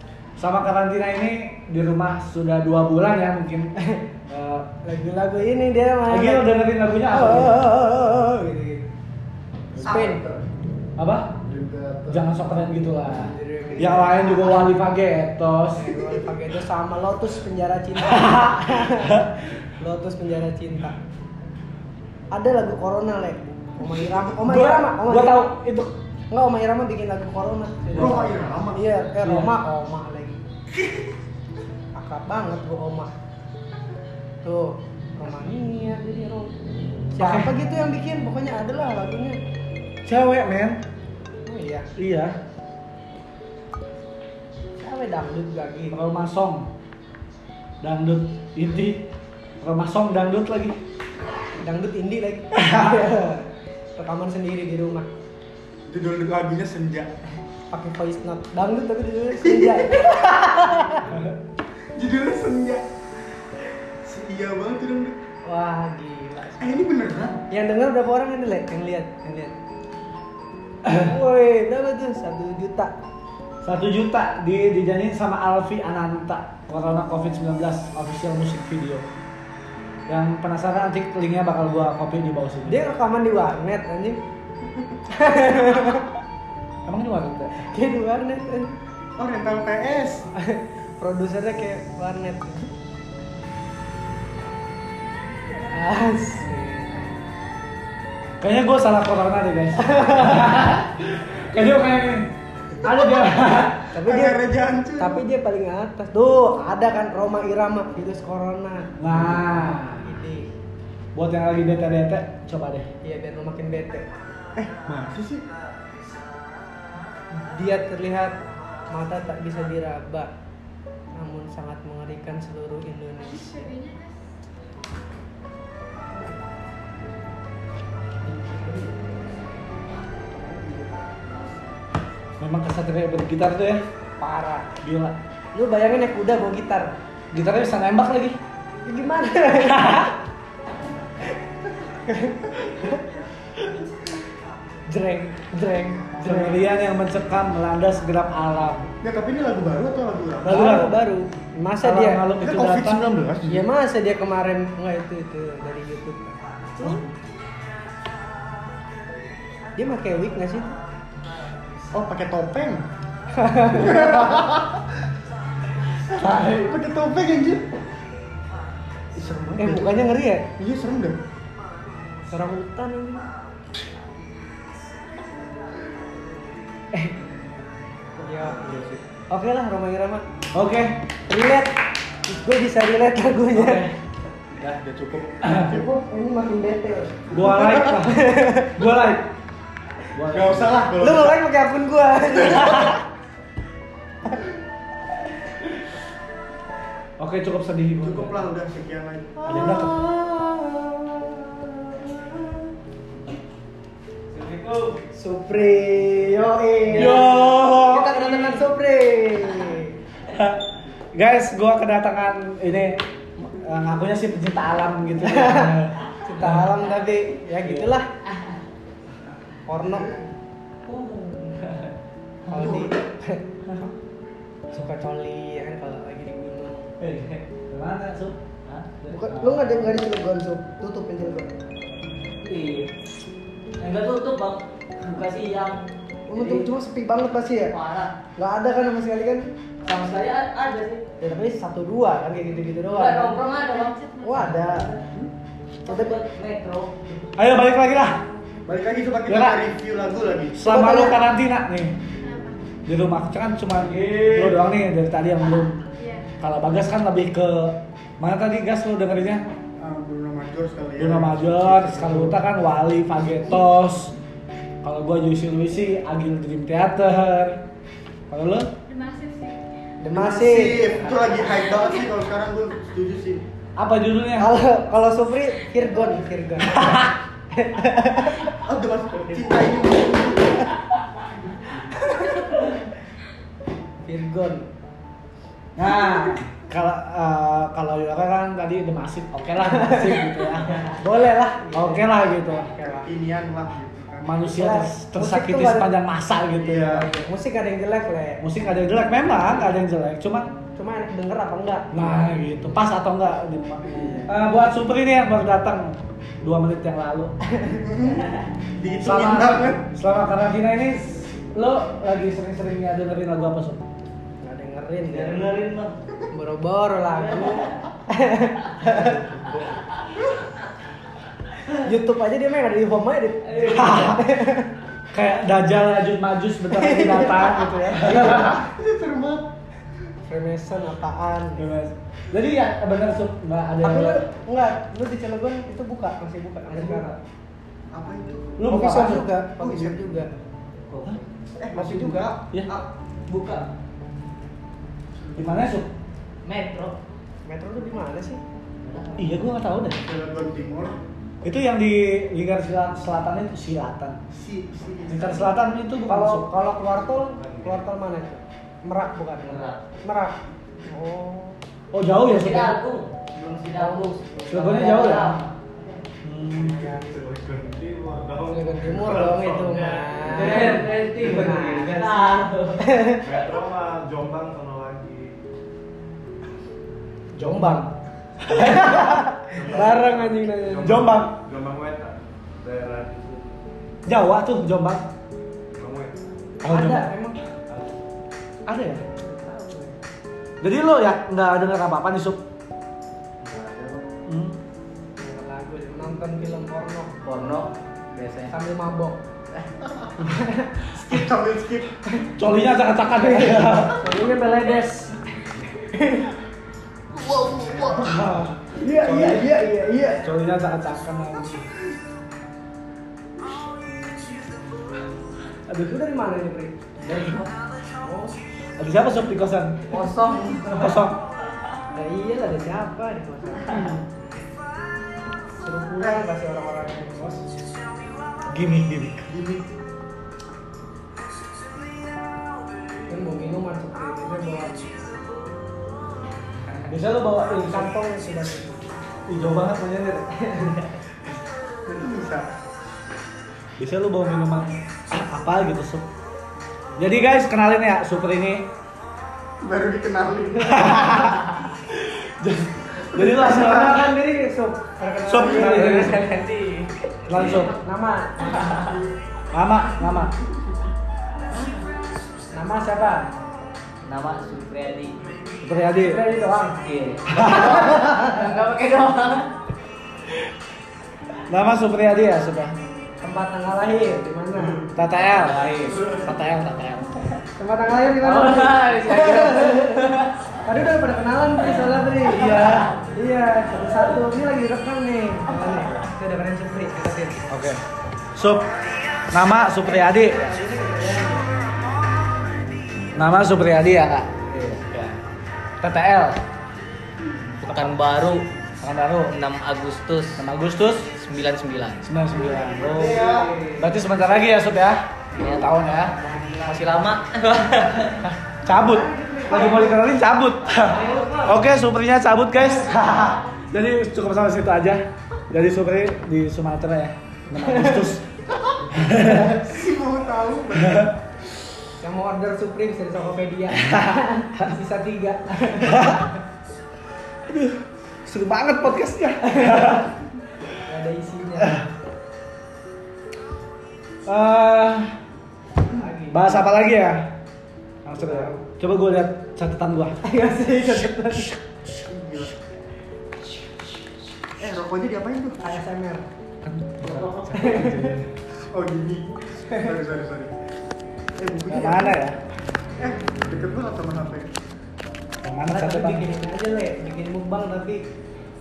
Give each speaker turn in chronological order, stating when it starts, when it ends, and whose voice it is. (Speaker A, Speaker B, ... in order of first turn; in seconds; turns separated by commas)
Speaker A: 0.4-3.7, Speaker A: 4.3-4.7, Speaker B: 4.8-6.5, Speaker A: 6.1-7.7, Speaker B: 7.1-8.9, Speaker C: 9.8-10.4, Speaker B: 9.8-10.2, Speaker A: 11.0-11.4, Speaker C: 11.5-12.2, Speaker A: 12.1-15.9, Speaker B: 13.2-14.6, Speaker B: 15.8-19.3, Speaker A: 18.0-19.3, Speaker B: 19.8-21.0, Speaker B: 22.3-25.6, Speaker A: 24.4-25.9, Speaker B: 26.3-30.4, Speaker A: 27.9-28.4, Speaker C: 27.9-28.8, Speaker A: 29.2-29.6, Speaker B: 31.9-33.1, Speaker B: 34.4-36.6, Speaker B: 37.1-39.4, Speaker A: 37.2-37.5, Speaker A: 40.0-40.8, Speaker B: 41.5-41.9, Speaker A: 42.0-42.4, Speaker B: 44.8-46.0, Speaker A: 45.9-46.7, Speaker A: 47.8-49.1, Speaker A: 49.6-50.8, Speaker B: 51.6-55.1, Speaker A: 52.6-53.1, Speaker C: 55.9-57.1, Speaker B: 57.7-61.1, Speaker C: 59.5-60.2, Speaker C: 61.9-62.8, Speaker C: 64.0-65.2, Speaker B: 65.5-66.8, Speaker C: 66.6-67.5, Speaker B: 67.5-69.5, Speaker B: 70.9-72.9, Speaker A: 73.6-79.0, Speaker A: 80.1-82.8, Speaker B: 82.7-84.2, Speaker B: 85.1-86.1, Speaker A: 86.9-87.7, Speaker B: 87.5-88.7, Speaker C: 89.2-90.2, Speaker B: 90.3-92.7, Speaker B: 95.7-97.1, Speaker A: 98.4-102.3, Speaker B: 99.8-100.5, Speaker A: 102.8-103.9, Speaker B: 103.9-104.4, Speaker C: 104.1-105.2, Speaker B: 105.0-110.5, Speaker A: 109.0-110.1, Speaker A: 111.2-112.9, Speaker B: 113.0-114.1, Speaker C: 114.6-115.4, Speaker B: 117.3-118.4, Speaker B: 118.9-120.3, Speaker B: 121.1-123.8, Speaker D: 123.4-124.3, Speaker A: 132.4-133.8, Speaker B: 134.2-134.7, Speaker A: 134.8-135.2, Speaker B: 135.5-136.9, Speaker A: 137.3-138.4, Speaker B: 138.8-140.1, Speaker A: 139.5-140.2, Speaker B: 141.6-143.0, Speaker B: 144.9-146.6, Speaker A: 146.0-148.9, Speaker C: 149.0-150.6, Speaker A: 150.4-150.9, Speaker B: 150.5-152.3, Speaker A: 151.8-153.2, Speaker C: 152.4-153.7, Speaker B: 153.5-157.0, Speaker B: 159.8-160.8, Speaker C: 161.9-162.9, Speaker B: 163.4-164.3, Speaker C: 163.7-164.8, Speaker A: 166.1-166.7, Speaker C: 166.4-167.6, Speaker C: 169.2-170.0, Speaker B: 169.6-170.5, Speaker C: 170.6-171.2, Speaker B: 172.3-173.3, Speaker B: 178.2-178.7, Speaker C: 178.4-179.0, Speaker B: 179.3-180.2, Speaker A: 180.5-181.0, Speaker B: 181.3-183.9, Speaker A: 183.5-183.9, Speaker C: 184.5-185.9, Speaker A: 185.4-185.7, Speaker B: 185.7-188.8, Speaker A: 187.3-189.3, Speaker A: 190.1-190.8, Speaker C: 190.3-191.4, Speaker B: 191.0-193.0, Speaker A: 197.2-198.5, Speaker C: 198.0-199.8, Speaker A: 199.4-200.0, Speaker B: 199.6-202.4, Speaker E: 204.3-205.0, Speaker B: 205.2-210.0, Speaker A: 206.9-208.6, Speaker A: 210.3-210.6, Speaker A: 211.1-216.8, Speaker B: 215.2-218.1, Speaker A: 217.6-218.0, Speaker B: 219.7-220.2, Speaker E: 220.9-221.8, Speaker B: 222.5-223.5, Speaker A: 222.5-222.9, Speaker B: 224.7-226.9, Speaker A: 227.0-228.4, Speaker A: 229.0-229.8, Speaker B: 229.1-231.5, Speaker E: 232.4-232.9, Speaker E: 233.8-235.8, Speaker B: 236.3-237.7, Speaker E: 236.3-236.7, Speaker E: 237.7-238.1, Speaker B: 238.4-239.5, Speaker E: 239.8-241.0, Speaker B: 241.2-243.4, Speaker E: 242.9-245.3, Speaker D: 243.7-244.3, Speaker B: 244.2-244.9, Speaker B: 245.8-246.2, Speaker E: 245.9-247.2, Speaker A: 247.4-248.2, Speaker C: 248.7-250.6, Speaker A: 249.3-249.6, Speaker A: 250.6-252.0, Speaker B: 250.6-251.2, Speaker D: 252.2-252.8, Speaker A: 252.9-255.8, Speaker E: 254.1-254.5, Speaker D: 256.0-256.3, Speaker A: 256.4-259.4, Speaker C: 259.8-262.4, Speaker A: 261.0-264.1, Speaker A: 264.8-267.6, Speaker A: 268.3-268.7, Speaker D: 268.9-269.6, Speaker B: 270.0-271.5, Speaker C: 270.1-273.4, Speaker A: 273.8-274.6, Speaker B: 274.4-278.6, Speaker C: 278.5-280.7, Speaker B: 279.3-279.7, Speaker B: 281.7-282.8, Speaker B: 284.0-284.7, Speaker A: 285.8-291.0, Speaker B: 289.7-290.4, Speaker B: 291.0-292.1, Speaker A: 291.7-292.7, Speaker B: 292.7-293.1, Speaker C: 292.8-294.4, Speaker A: 294.2-297.1, Speaker B: 294.5-295.9, Speaker C: 296.6-297.1, Speaker B: 296.9-298.4, Speaker A: 298.4-300.5, Speaker B: 300.8-302.1, Speaker A: 301.9-307.3, Speaker C: 307.6-309.8, Speaker A: 309.0-313.8, Speaker B: 314.4-315.5, Speaker E: 315.1-315.9, Speaker B: 316.3-319.2, Speaker E: 317.2-317.8, Speaker F: 318.9-319.5, Speaker B: 321.8-324.7, Speaker E: 323.4-324.0, Speaker A: 323.7-324.3, Speaker A: 325.1-328.6, Speaker B: 326.7-328.6, Speaker C: 328.4-329.5, Speaker B: 330.2-331.7, Speaker A: 331.6-334.2, Speaker B: 333.8-337.2, Speaker C: 337.9-338.6, Speaker A: 338.6-339.3, Speaker B: 338.7-340.3, Speaker C: 339.6-340.0, Speaker E: 340.9-341.3, Speaker C: 341.6-342.9, Speaker B: 341.7-342.3, Speaker E: 343.3-343.7, Speaker C: 345.1-345.7, Speaker A: 345.4-345.9, Speaker E: 346.4-347.0, Speaker B: 347.4-348.4, Speaker E: 348.8-349.4, Speaker A: 349.2-350.0, Speaker C: 350.0-351.0, Speaker A: 351.4-354.2, Speaker C: 354.3-355.5, Speaker A: 355.1-356.5, Speaker B: 356.1-361.6, Speaker F: 357.1-357.9, Speaker E: 359.4-359.8, Speaker A: 361.9-362.8, Speaker E: 362.3-366.1, Speaker B: 363.7-364.5, Speaker A: 364.5-365.4, Speaker A: 366.2-366.9, Speaker F: 366.6-370.3, Speaker C: 366.9-367.2, Speaker B: 368.4-373.3, Speaker E: 370.2-372.9, Speaker F: 373.2-375.4, Speaker B: 377.4-377.9, Speaker A: 377.4-377.9, Speaker A: 378.4-379.2, Speaker B: 378.5-381.1, Speaker F: 379.5-383.6, Speaker A: 380.8-381.4, Speaker A: 384.1-385.1, Speaker F: 385.8-386.6, Speaker A: 386.6-387.1, Speaker B: 386.7-387.4, Speaker F: 387.7-388.0, Speaker A: 388.7-389.0, Speaker B: 389.2-390.0, Speaker A: 390.6-392.4, Speaker E: 393.4-394.1, Speaker A: 394.3-394.6, Speaker B: 395.2-397.1, Speaker E: 397.2-398.5, Speaker B: 398.5-399.2, Speaker C: 399.9-400.2, Speaker B: 400.2-400.9, Speaker C: 400.9-401.9, Speaker A: 402.4-404.1, Speaker B: 403.1-406.3, Speaker C: 407.1-408.1, Speaker A: 408.0-409.5, Speaker B: 408.1-410.2, Speaker C: 409.1-409.4, Speaker A: 410.2-411.7, Speaker B: 415.7-416.8, Speaker A: 417.0-417.5, Speaker B: 418.0-418.4, Speaker A: 418.8-419.8, Speaker E: 419.9-421.0, Speaker B: 419.9-420.7, Speaker A: 420.7-421.2, Speaker B: 421.9-423.9, Speaker A: 423.7-424.0, Speaker B: 425.6-427.4, Speaker A: 428.5-429.3, Speaker C: 429.3-429.7, Speaker B: 433.1-434.8, Speaker A: 436.9-437.9, Speaker B: 437.6-438.8, Speaker A: 439.3-440.3, Speaker B: 440.4-441.0, Speaker C: 441.9-442.5, Speaker A: 443.8-446.1, Speaker A: 447.0-448.7, Speaker C: 449.6-451.4, Speaker A: 450.6-454.2, Speaker C: 453.1-453.9, Speaker B: 453.4-456.4, Speaker A: 455.2-456.2, Speaker E: 455.9-457.7, Speaker A: 457.3-457.8, Speaker B: 457.4-459.0, Speaker A: 459.5-460.4, Speaker B: 462.5-463.3, Speaker E: 464.0-465.4, Speaker A: 465.6-466.2, Speaker B: 466.0-466.8, Speaker E: 466.8-469.5, Speaker A: 467.3-467.9, Speaker B: 467.5-468.3, Speaker A: 471.5-472.8, Speaker B: 473.2-474.9, Speaker A: 474.9-477.3, Speaker E: 475.2-476.2, Speaker B: 477.6-480.1, Speaker E: 478.2-480.3, Speaker B: 480.6-487.4, Speaker A: 482.3-482.9, Speaker E: 482.5-482.9, Speaker A: 487.5-487.8, Speaker A: 488.4-488.7, Speaker A: 489.3-490.4, Speaker B: 489.8-491.5, Speaker A: 493.1-494.4, Speaker E: 494.5-495.0, Speaker A: 494.9-495.2, Speaker A: 495.8-496.4, Speaker E: 497.6-498.5, Speaker A: 498.8-499.4, Speaker E: 499.3-500.4, Speaker A: 500.4-501.2, Speaker E: 501.2-502.0, Speaker A: 502.0-506.1, Speaker B: 502.4-504.1, Speaker C: 502.9-503.5, Speaker E: 505.3-505.8, Speaker B: 506.0-507.0, Speaker E: 506.7-508.2, Speaker A: 508.2-518.2, Speaker B: 508.7-510.1, Speaker B: 510.8-511.6, Speaker B: 512.9-513.3, Speaker B: 517.5-518.1, Speaker A: 518.9-519.6, Speaker C: 519.5-521.2, Speaker A: 520.8-521.1, Speaker B: 522.0-526.3, Speaker A: 523.8-524.7, Speaker A: 525.8-526.3, Speaker A: 527.5-530.1, Speaker B: 529.4-530.0, Speaker B: 530.8-531.8, Speaker A: 531.6-531.9, Speaker A: 534.3-535.1, Speaker B: 535.9-536.6, Speaker A: 536.3-537.4, Speaker A: 538.0-540.2, Speaker B: 538.2-538.6, Speaker B: 540.2-541.5, Speaker C: 542.1-542.5, Speaker C: 544.6-545.6, Speaker B: 545.6-546.3, Speaker A: 546.6-548.3, Speaker B: 547.1-548.2, Speaker C: 548.7-550.5, Speaker B: 549.5-550.0, Speaker C: 551.4-552.3, Speaker A: 551.7-552.4, Speaker C: 553.0-554.5, Speaker A: 555.4-556.3, Speaker B: 555.7-558.0